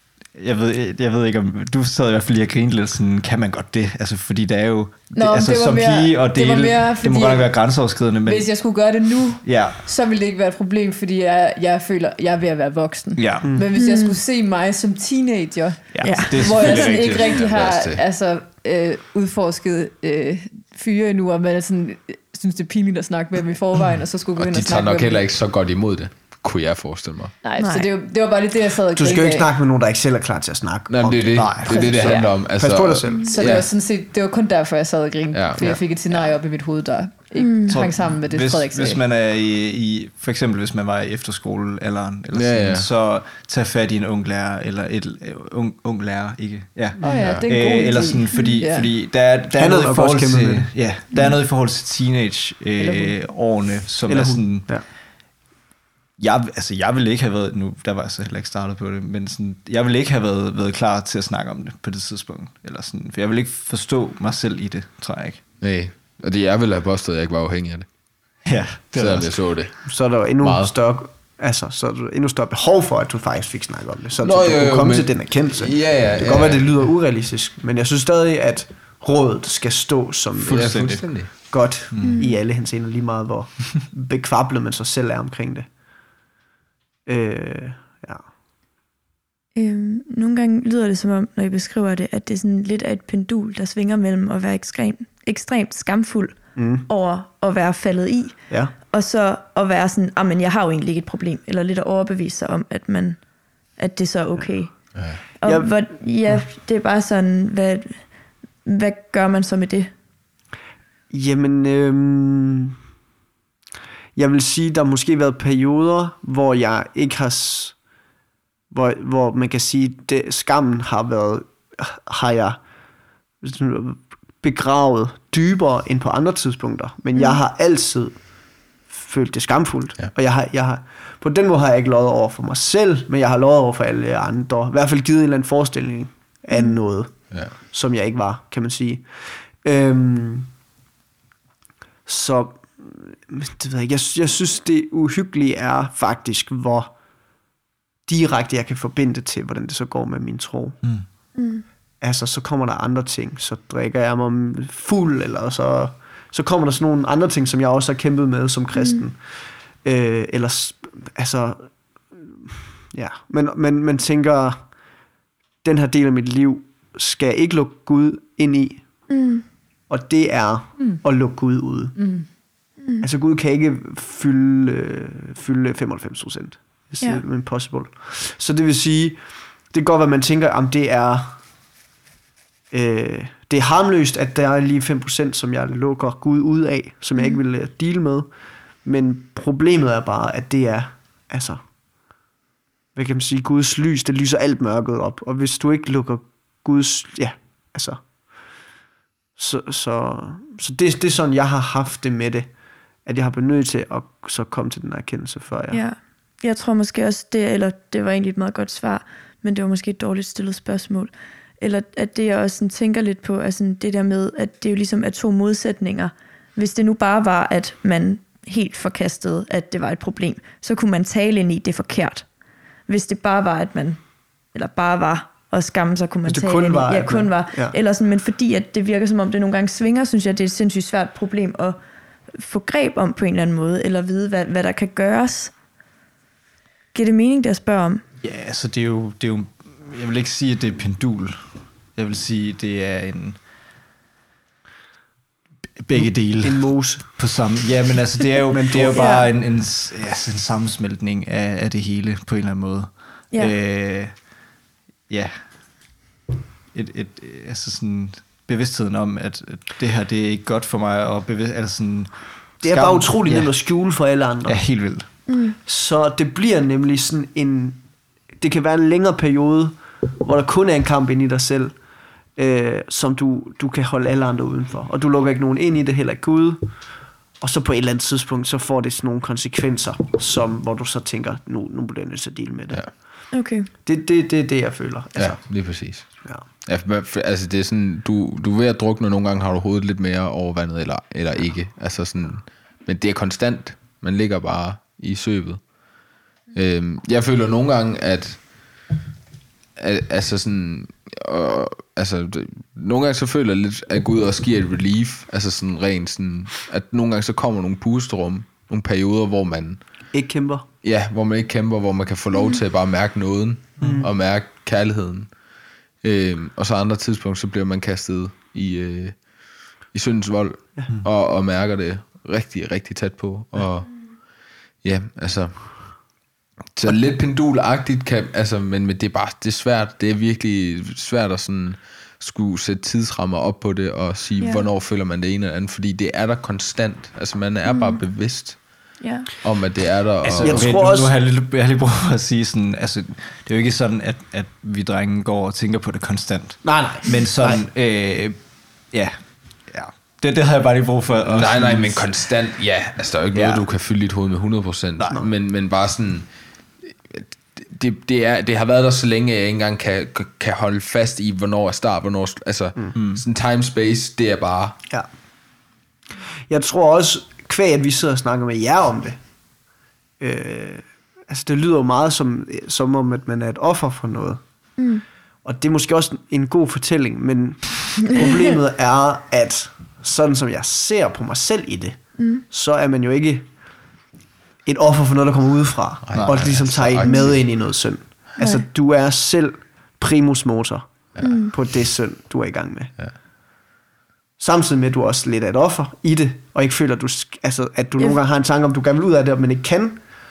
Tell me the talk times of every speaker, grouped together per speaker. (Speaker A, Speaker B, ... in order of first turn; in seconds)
Speaker A: 0.3-8.9, 9.4-9.8, 13.2-13.6, 15.9-17.4, 31.3-31.9, 37.7-55.0, 56.2-65.4, 68.4-69.5, 76.2-76.6, 80.5-81.3, 81.9-82.2, 238.2-243.4, 245.8-254.4, 255.1-256.0, 256.7-265.1, 340.2-352.1, 353.3-353.6, 355.0-355.2, 362.9-363.2, 386.1-386.6
Speaker B: 5.1-25.2, 27.4-29.5, 31.6-32.4, 33.2-39.0, 47.0-48.9, 51.1-51.4, 52.8-53.2, 171.9-172.3
Speaker C: 13.4-13.7, 28.9-33.3, 47.0-47.4, 49.5-50.7, 54.1-54.8, 69.8-85.7, 87.0-88.3, 96.5-96.9, 104.3-106.4, 111.1-112.7, 114.1-117.8, 118.7-122.6, 123.4-140.5, 142.1-146.9, 148.1-151.0, 152.0-165.0, 165.6-169.1, 169.9-172.4, 173.0-181.4, 182.7-191.7, 192.9-198.4, 199.3-205.8, 226.2-227.7, 245.9-247.5, 248.5-249.1, 262.6-267.8, 268.4-271.8, 272.3-283.2, 283.8-286.4, 310.1-310.6, 313.8-314.1, 340.4-341.1, 346.6-347.6, 366.5-369.3, 370.2-374.4, 375.4-383.5, 384.6-392.9, 394.4-400.0
Speaker D: 13.7-14.2, 16.0-16.5, 27.6-27.9, 33.1-33.4, 37.4-37.8, 48.3-48.6, 82.0-82.4, 89.5-108.1, 108.6-109.9, 127.1-127.4, 136.5-136.8, 151.3-151.6, 158.8-159.0, 169.1-169.4, 187.1-187.4, 205.7-222.3, 222.9-231.8, 232.3-235.5, 236.9-238.0, 248.9-249.3, 253.3-253.6, 265.3-265.6, 283.3-283.7, 334.4-334.6, 337.7-338.0, 339.0-339.3, 374.8-375.0, 382.2-382.4, 387.0-387.4, 388.4-388.6, 391.2-391.5
Speaker E: 16.4-18.0, 24.4-27.4, 30.9-33.7, 35.3-35.6, 42.3-42.9, 47.1-47.5, 65.6-67.9, 68.9-70.7, 74.2-76.7, 80.4-81.5, 104.9-105.2, 285.1-295.7, 296.5-298.5, 299.8-309.8, 310.8-315.3, 316.0-319.3, 319.9-324.2, 324.8-326.1, 326.7-340.7, 351.2-356.3, 356.9-364.8, 386.1-387.8, 391.1-391.4